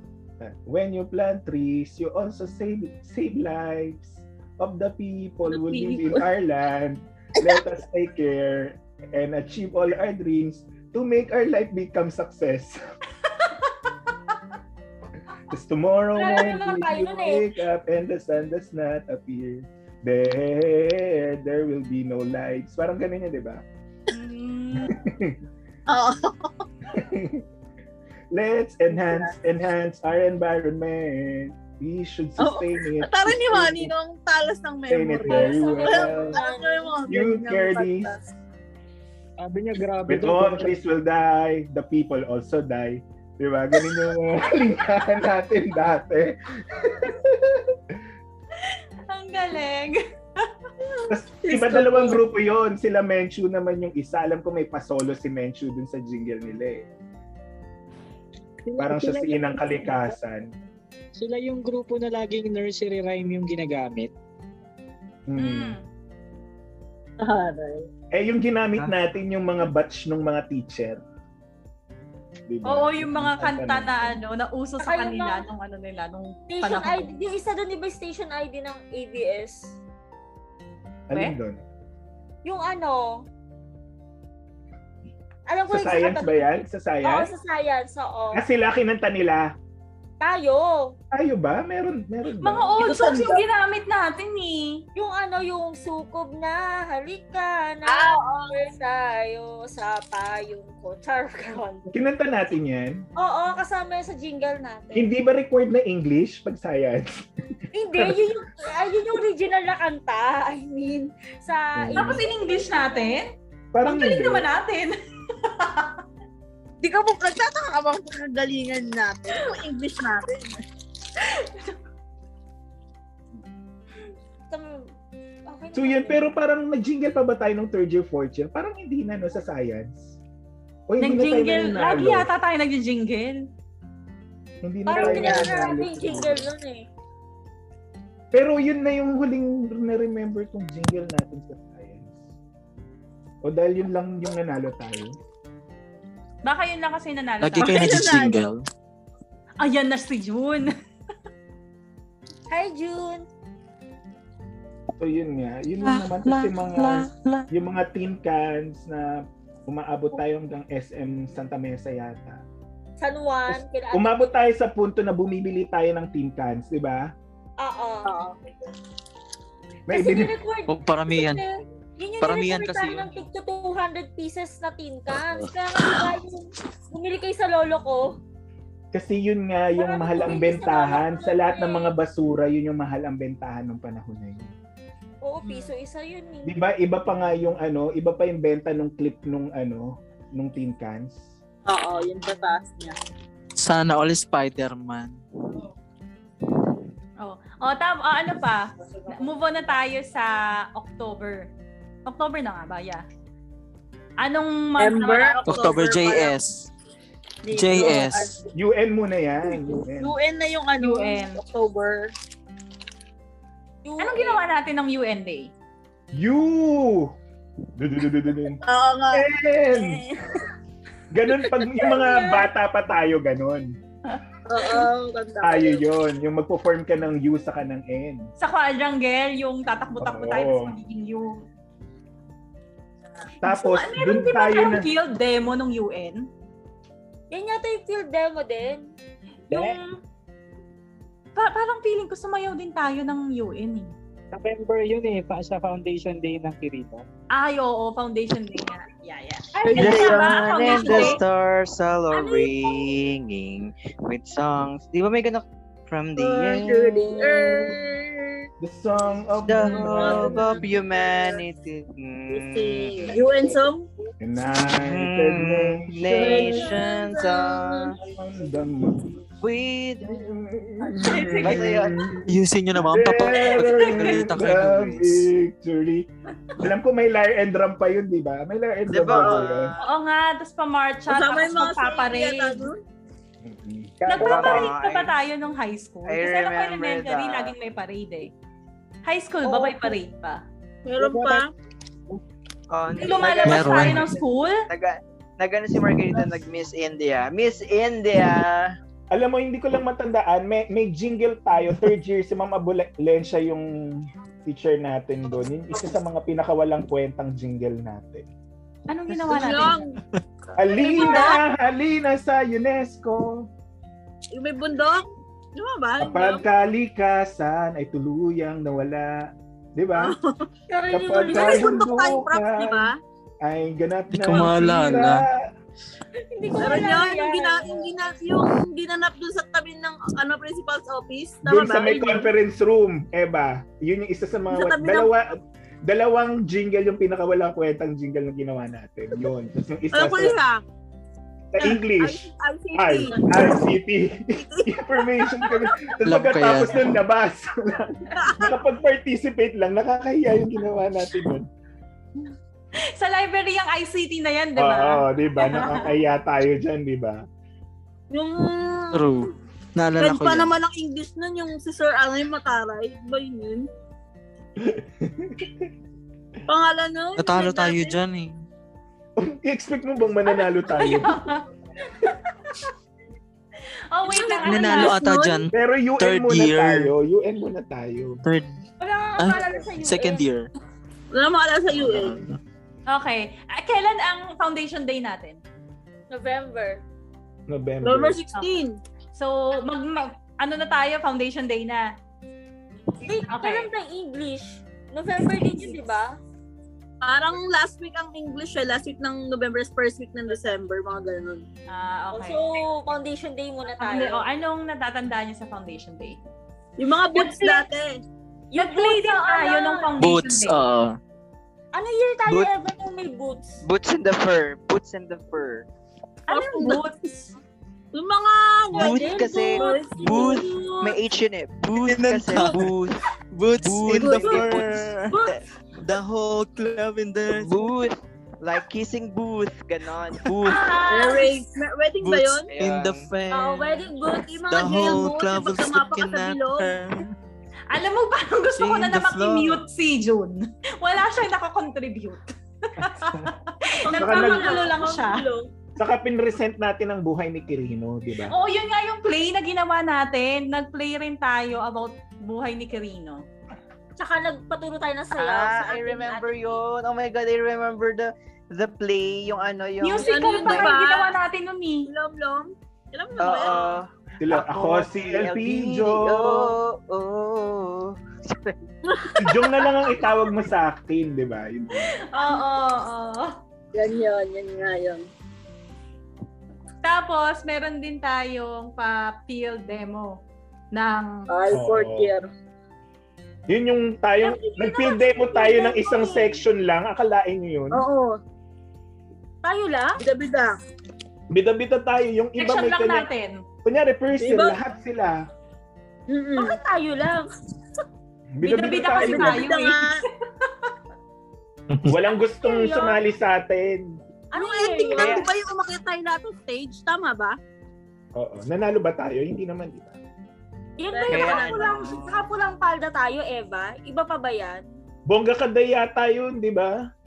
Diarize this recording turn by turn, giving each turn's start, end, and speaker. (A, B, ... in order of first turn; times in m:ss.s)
0:00.4-0:12.8 A
0:05.5-0:06.2 B
0:15.5-0:23.6 A
0:16.1-0:17.5 C
0:24.1-0:24.9 D
0:24.8-0:25.4 A
0:25.9-0:26.5 B
0:26.9-0:27.4 A
0:28.3-0:33.9 A
0:28.9-0:29.3 B
0:32.4-0:38.2 B
0:34.9-0:36.4 A
0:35.3-0:37.0 C
0:37.1-0:38.1 A
0:39.4-0:40.7 E
0:40.1-0:47.7 A
0:48.7-0:50.5 D
0:50.8-0:52.2 B
0:51.1-0:56.8 A
0:58.6-1:00.1 E
0:58.8-1:00.5 A
1:01.2-1:04.1 E
1:05.3-1:05.8 A
1:05.4-1:05.8 D
1:07.2-1:07.9 B
1:08.1-1:11.0 A
1:12.5-1:14.2 A
1:12.6-1:17.1 D
1:14.8-1:15.4 C
1:16.5-1:19.8 C
1:21.1-1:21.6 A
1:22.4-1:23.3 C
1:25.5-1:28.4 C
1:25.7-1:27.3 A
1:28.3-1:29.5 A
1:30.2-1:31.0 C
1:31.1-1:32.8 A
1:32.4-1:34.8 D
1:32.8-1:33.4 B
1:34.9-1:41.9 C
1:37.8-1:38.6 B
1:41.9-1:43.0 A
1:43.2-1:45.1 C
1:44.9-1:47.2 A
1:47.7-1:53.2 C
1:51.8-1:52.2 A
1:52.0-1:53.3 D
1:53.7-1:54.5 A
1:53.8-1:56.0 D
1:56.8-2:00.6 B
2:01.4-2:01.6 D
2:04.5-2:04.9 C
2:05.5-2:06.2 C
2:05.7-2:10.2 A
2:10.9-2:12.3 A
2:11.0-2:13.4 D
2:14.6-2:16.5 A
2:14.8-2:16.9 C
2:14.9-2:15.8 B
2:18.3-2:22.2 A
2:23.4-2:25.2 A
2:26.4-2:27.7 D
2:27.4-2:28.6 F
2:27.6-2:28.4 B
2:29.6-2:30.7 D
2:32.5-2:33.3 C
2:35.0-2:39.1 A
2:35.8-2:37.4 F
2:39.7-2:42.4 A
2:43.0-2:44.3 C
2:43.5-2:47.1 A
2:47.6-2:48.1 C
2:48.0-2:48.3 B
2:49.9-2:50.3 A
2:49.9-2:58.2 C
2:50.7-2:51.4 F
2:52.2-2:53.2 F
2:58.9-3:04.5 A
2:59.7-3:01.9 C
3:05.2-3:06.6 C
3:06.4-3:11.2 A
3:11.6-3:13.0 B
3:13.6-3:15.2 F
3:17.2-3:21.5 D
3:22.0-3:23.0 D
3:24.2-3:25.4 D
3:24.8-3:26.4 B
3:25.4-3:26.7 F
3:27.4-3:28.5 B
3:27.5-3:28.4 F
3:28.5-3:30.1 A
3:29.5-3:32.1 B
3:30.8-3:31.4 D
3:33.8-3:34.4 C
3:34.0-3:35.5 D
3:36.1-3:37.1 A
3:37.8-3:38.6 A
3:38.6-3:40.5 B
3:39.1-3:40.0 A
3:41.1-3:43.7 A
3:41.4-3:42.0 B
3:44.5-3:45.8 B
3:45.4-3:48.3 A
3:48.4-3:51.4 D
3:50.0-3:50.8 A
3:53.4-3:54.9 A
3:53.4-3:56.3 D
3:57.3-3:58.9 C
3:59.5-3:59.9 D
3:59.5-3:59.8 E
4:01.4-4:03.9 D
4:04.3-4:07.0 E
4:07.3-4:11.2 D
4:09.6-4:11.2 B
4:09.8-4:17.4 G
4:16.2-4:18.4 B
4:18.6-4:20.6 A
4:19.5-4:23.1 G
4:19.6-4:21.4 B
4:22.3-4:23.9 B
4:24.2-4:26.7 A
4:24.6-4:27.9 G
4:26.2-4:27.9 B
4:28.1-4:29.2 A
4:29.4-4:30.2 G
4:30.0-4:36.1 A
4:31.0-4:31.6 D
4:31.3-4:32.0 G
4:32.3-4:35.3 F
4:33.4-4:34.1 D
4:36.6-4:39.7 A
4:38.9-4:39.9 G
4:39.8-4:42.7 D
4:41.1-4:42.8 B
4:43.4-4:44.6 A
4:44.1-4:48.3 D
4:44.2-4:45.1 G
4:46.1-4:47.5 G
4:49.0-4:50.4 D
4:49.4-4:49.9 B
4:50.8-4:51.5 B
4:51.0-4:51.5 E
4:52.7-4:54.1 G
4:53.0-4:54.6 D
4:53.4-4:54.2 F
4:54.7-4:58.7 G
4:59.1-5:03.7 A
5:04.4-5:08.3 A
5:08.9-5:09.8 D
5:09.2-5:10.0 B
5:10.6-5:13.5 A
5:10.7-5:11.4 B
5:10.8-5:11.4 D
5:14.3-5:16.4 B
5:16.0-5:19.1 A
5:19.7-5:20.1 A
5:19.9-5:20.4 B
5:20.7-5:21.8 C
5:20.9-5:22.9 A
5:21.3-5:23.0 B
5:23.4-5:25.3 A
5:24.1-5:25.2 F
5:26.3-5:27.9 C
5:26.6-5:32.3 B
5:31.4-5:40.4 A
5:34.5-5:35.1 B
5:39.9-5:40.6 B
5:41.5-5:51.5 A
5:41.6-5:43.6 B
5:44.4-5:46.0 B
5:46.0-5:47.0 F
5:48.2-5:48.5 B
5:52.8-5:55.8 D
5:54.6-5:57.2 A
5:58.1-5:59.1 B
5:58.9-6:00.5 F
6:00.0-6:03.6 B
6:04.6-6:05.5 A
6:06.5-6:08.0 B
6:07.2-6:08.3 F
6:09.2-6:11.2 A
6:10.3-6:11.4 D
6:13.9-6:15.0 D
6:14.0-6:14.8 C
6:14.4-6:16.9 F
6:14.5-6:15.4 B
6:15.5-6:18.2 A
6:18.2-6:18.6 F
6:18.8-6:20.2 C
6:19.2-6:20.5 F
6:21.1-6:22.2 B
6:21.7-6:22.4 F
6:22.9-6:25.4 D
6:26.1-6:26.8 C
6:27.5-6:28.2 A
6:27.8-6:28.8 B
6:29.1-6:31.8 D
6:33.0-6:36.2 C
6:33.2-6:33.7 D
6:37.0-6:41.4 B
6:41.7-6:42.4 D
6:42.1-6:44.2 C
6:43.8-6:46.2 D
6:46.8-6:48.0 B
6:47.2-6:47.6 D
6:48.5-6:49.9 C
6:48.6-6:50.6 D
6:50.0-6:51.0 F
6:51.7-6:53.6 C
6:52.3-6:52.5 G
6:53.6-6:55.7 G
6:56.3-6:57.4 D
6:56.3-6:56.8 B
6:57.9-7:00.4 B
6:58.7-7:01.0 C
6:58.7-7:03.0 G
7:01.6-7:02.7 F
7:03.3-7:07.7 F
7:03.6-7:04.8 G
7:03.9-7:04.6 B
7:05.1-7:05.4 C
7:07.3-7:10.3 G
7:10.2-7:10.8 F
7:10.5-7:11.4 C
7:10.5-7:11.2 D
7:10.9-7:12.5 B
7:12.0-7:13.9 F
7:12.5-7:13.0 G
7:13.3-7:14.3 C
7:14.1-7:16.7 B
7:14.5-7:17.1 F
7:17.7-7:25.2 D
7:18.6-7:19.6 F
7:23.9-7:25.5 C
7:24.0-7:24.5 A
7:25.8-7:28.3 A
7:28.3-7:33.2 D
7:34.0-7:36.6 C
7:35.2-7:40.7 G
7:39.8-7:41.9 D
7:40.0-7:41.1 B
7:41.9-7:43.8 B
7:43.2-7:48.5 G
7:44.2-7:46.5 A
7:48.8-7:49.4 B
7:49.2-7:51.9 A
7:52.1-7:53.4 D
7:53.7-7:55.0 B
7:56.8-8:00.2 D
8:00.7-8:01.1 D
8:01.3-8:02.3 B
8:01.5-8:02.1 A
8:03.5-8:07.8 A
8:04.3-8:05.0 D
8:05.1-8:06.4 C
8:07.7-8:08.2 B
8:09.4-8:10.0 C
8:10.0-8:10.6 B
8:11.3-8:13.1 A
8:12.4-8:13.4 D
8:13.6-8:15.2 A
8:14.2-8:14.6 B
8:16.1-8:16.6 B
8:16.3-8:17.3 C
8:18.3-8:19.5 A
8:18.4-8:19.8 D
8:18.9-8:20.0 B
8:21.9-8:24.0 A
8:22.4-8:23.0 C
8:24.3-8:25.3 C
8:24.3-8:27.4 B
8:25.0-8:25.3 G
8:28.2-8:29.9 A
8:30.8-8:34.6 C
8:30.9-8:31.9 B
8:31.1-8:32.1 G
8:35.1-8:36.8 A